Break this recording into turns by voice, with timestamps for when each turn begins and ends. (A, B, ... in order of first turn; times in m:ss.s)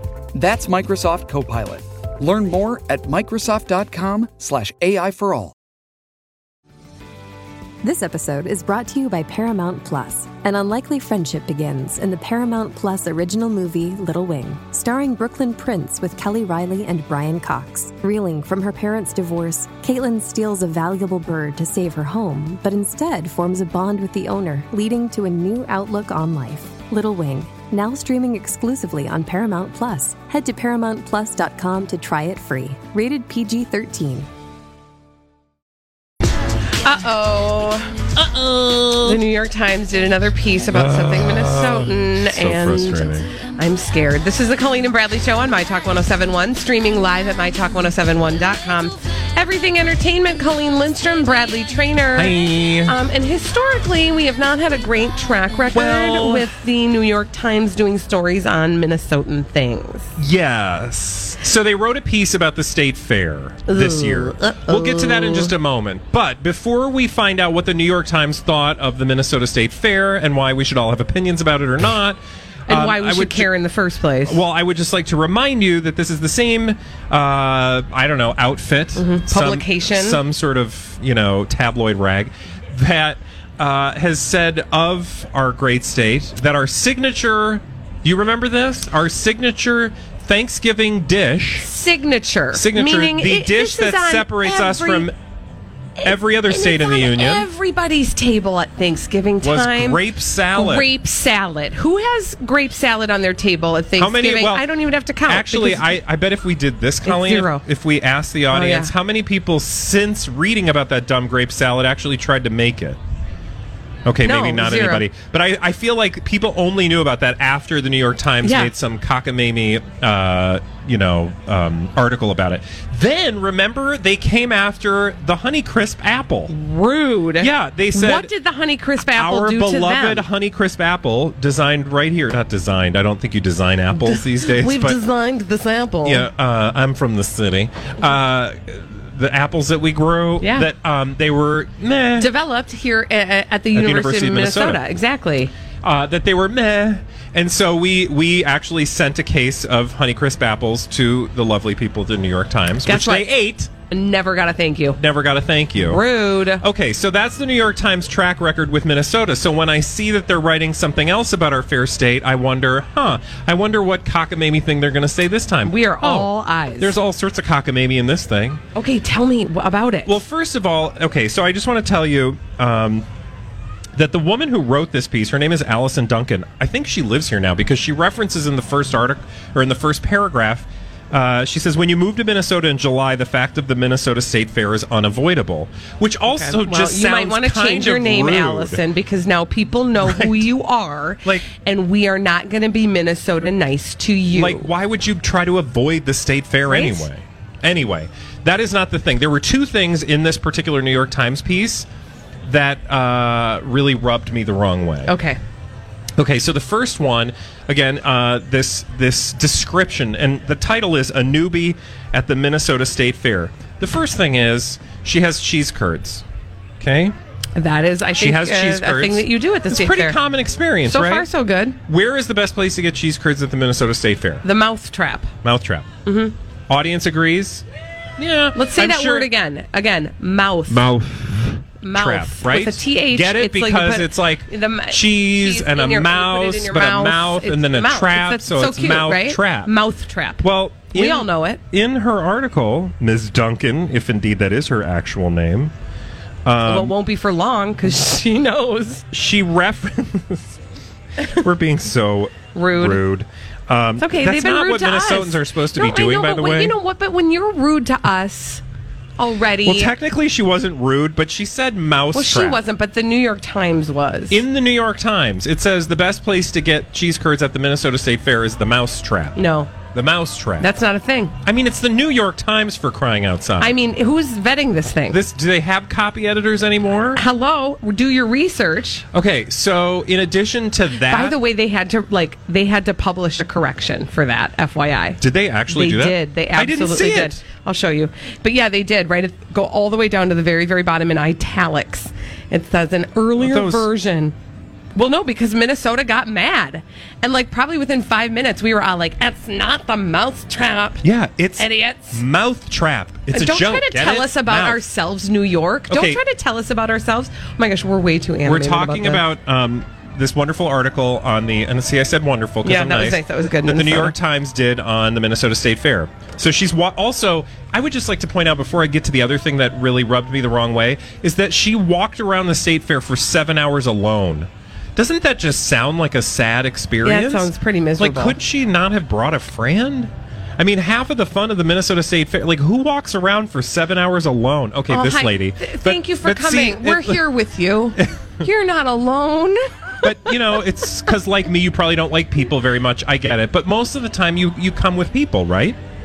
0:00.3-0:05.5 A
0:07.8-0:34.3 B
0:36.8-0:38.1 C
0:38.1-0:39.2 D
0:38.9-1:00.1 C
0:40.7-0:43.3 D
0:52.1-0:52.9 D
0:55.7-0:56.5 D
1:00.2-1:13.5 D
1:03.7-1:05.5 C
1:12.7-1:14.4 C
1:14.2-1:31.7 D
1:19.0-1:20.2 C
1:31.6-1:35.1 C
1:32.5-1:35.1 D
1:36.0-1:46.0 C
1:36.0-1:37.5 D
1:39.4-1:40.9 D
1:44.0-1:44.7 D
1:45.2-1:53.0 D
1:47.0-1:47.6 C
1:48.5-1:48.9 C
1:54.0-2:06.5 D
1:54.2-1:55.1 C
1:58.4-1:58.7 C
2:06.5-2:10.2 C
2:07.4-2:08.3 D
2:09.0-2:15.0 D
2:13.9-2:16.3 C
2:16.0-2:22.3 D
2:20.4-2:20.7 C
2:22.2-2:25.5 C
2:23.7-2:24.8 D
2:25.8-2:33.7 D
2:32.8-2:33.3 C
2:33.9-2:35.0 C
2:35.0-2:36.0 D
2:35.8-2:36.6 C
2:36.6-2:48.6 D
2:45.6-2:46.9 C
2:48.7-2:50.2 C
2:50.0-2:53.0 D
2:53.9-3:08.8 D
3:06.3-3:14.7 C
3:10.0-3:10.5 D
3:14.3-3:21.9 D
3:16.7-3:17.0 C
3:22.4-3:25.1 D
3:25.0-3:25.4 C
3:26.2-3:36.2 D
3:36.8-3:37.2 D
3:37.6-3:40.2 C
3:38.2-3:41.3 D
3:40.8-3:41.8 C
3:41.9-3:44.4 D
3:44.4-3:45.3 C
3:45.4-3:45.9 D
3:46.0-3:46.3 C
3:46.7-3:47.6 D
3:48.2-3:49.3 D
3:48.5-3:50.9 C
3:50.7-3:59.7 D
3:51.8-4:01.6 C
4:00.4-4:05.7 D
4:06.4-4:06.9 D
4:06.6-4:09.0 C
4:09.1-4:10.6 D
4:11.3-4:16.8 D
4:12.5-4:13.0 C
4:14.0-4:18.6 C
4:19.2-4:19.9 C
4:19.6-4:22.6 D
4:22.1-4:24.4 C
4:24.3-4:30.7 D
4:29.4-4:29.7 C
4:30.6-4:31.3 C
4:31.4-4:33.8 D
4:33.6-4:35.2 C
4:35.1-4:37.2 D
4:37.1-4:39.0 C
4:39.1-4:41.4 D
4:41.0-4:54.3 C
4:45.2-4:47.4 D
4:53.4-4:53.9 D
4:54.9-5:01.0 C
5:01.0-5:04.8 D
5:01.6-5:02.2 C
5:03.3-5:09.2 C
5:05.9-5:06.2 D
5:08.4-5:37.3 D
5:12.6-5:14.1 C
5:27.0-5:28.4 C
5:34.9-5:40.4 C
5:38.0-5:38.4 D
5:40.0-5:45.8 D